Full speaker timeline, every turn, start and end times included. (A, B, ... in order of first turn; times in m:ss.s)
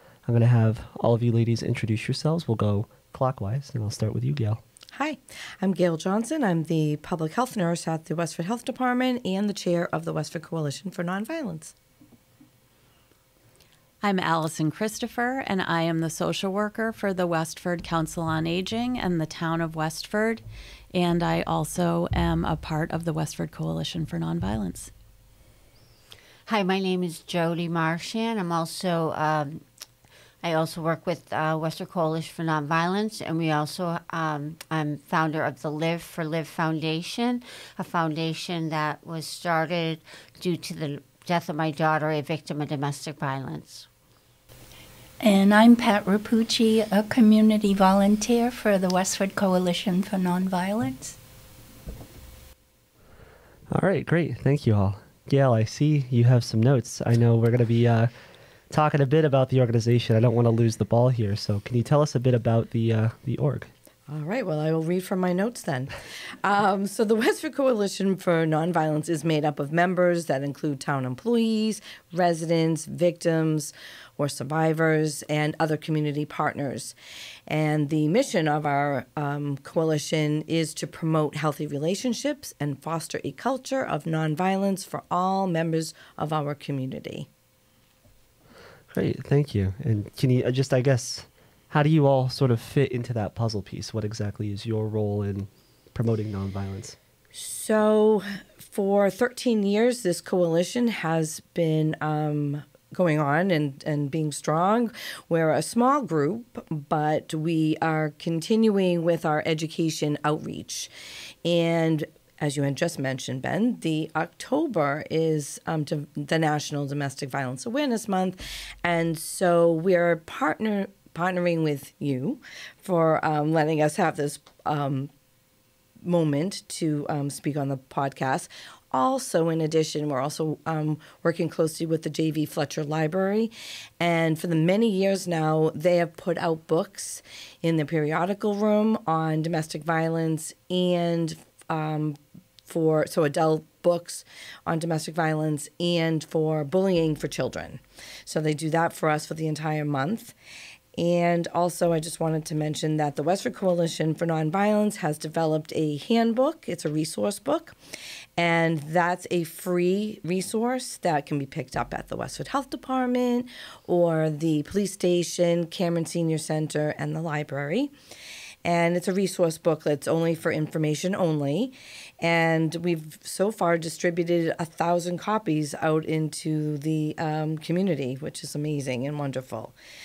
0:00.2-0:04.6 A
0:04.9-0:11.7 B
0:14.0-0:20.4 C
0:20.9-0:24.9 C
0:26.5-0:29.6 D
0:30.4-0:43.9 D
0:45.2-0:51.2 E
0:53.7-0:58.1 A
0:58.7-1:03.7 A
1:04.1-1:16.9 B
1:17.5-1:27.3 B
1:28.9-1:37.0 A
1:37.3-1:50.9 B
1:51.4-2:05.1 B
2:06.0-2:30.3 B
2:31.0-2:37.8 B
2:38.4-2:47.9 B
2:48.6-2:59.7 B